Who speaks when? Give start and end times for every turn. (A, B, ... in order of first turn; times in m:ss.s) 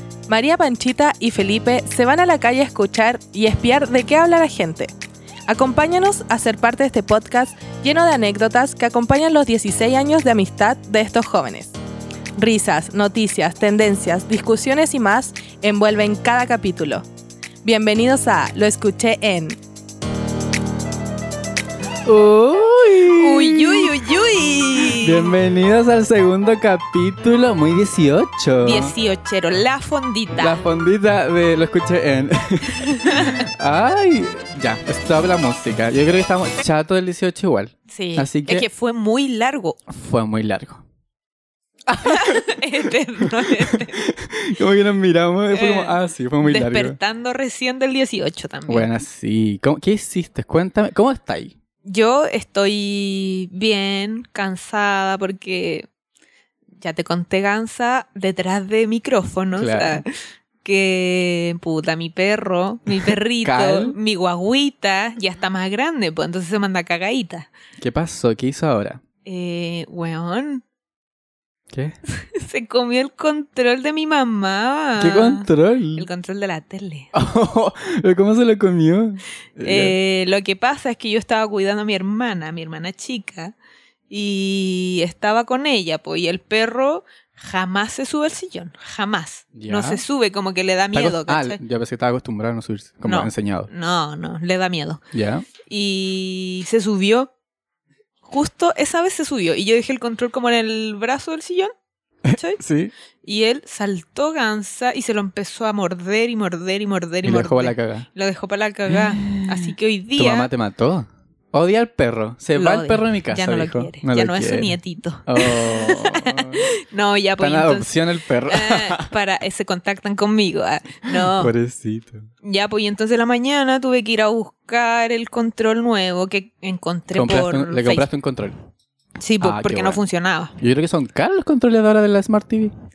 0:00.3-0:04.9 A
0:05.5-0:11.8 A
0:12.4-0:17.0 A
0:17.6-0:19.6 A
0:22.0-0:23.9 B
0:23.1-0:25.3 C
0:25.0-0:28.9 B
0:28.6-0:30.6 C
0:30.4-0:38.7 B
0:33.0-0:33.4 C
0:37.9-0:39.8 C
0:39.9-0:40.8 B
0:41.9-0:42.5 B
0:42.0-0:44.1 C
0:43.2-0:47.0 B
0:45.5-0:48.9 C
0:48.7-0:51.5 B
0:51.8-0:55.9 C
0:56.8-1:00.1 C
0:59.6-1:00.0 B
1:00.6-1:07.5 C
1:03.0-1:04.0 B
1:07.8-1:09.0 B
1:09.2-1:10.6 C
1:12.4-1:17.1 C
1:15.0-1:16.1 B
1:17.1-1:20.0 B
1:19.6-1:23.5 C
1:24.1-1:31.6 C
1:29.6-1:30.0 B
1:30.9-1:33.7 B
1:33.0-1:35.0 C
1:35.1-1:35.4 B
1:35.7-1:37.3 C
1:38.2-1:41.7 C
1:42.2-1:42.6 C
1:42.3-1:42.9 B
1:43.2-1:50.5 C
1:47.2-1:48.1 B
1:48.9-1:56.7 B
1:52.5-1:58.0 C
1:57.4-1:59.1 B
1:58.5-2:01.5 C
2:01.1-2:02.3 B
2:02.4-2:08.1 C
2:07.1-2:08.6 B
2:09.2-2:10.5 C
2:09.4-2:10.0 B
2:10.6-2:12.7 B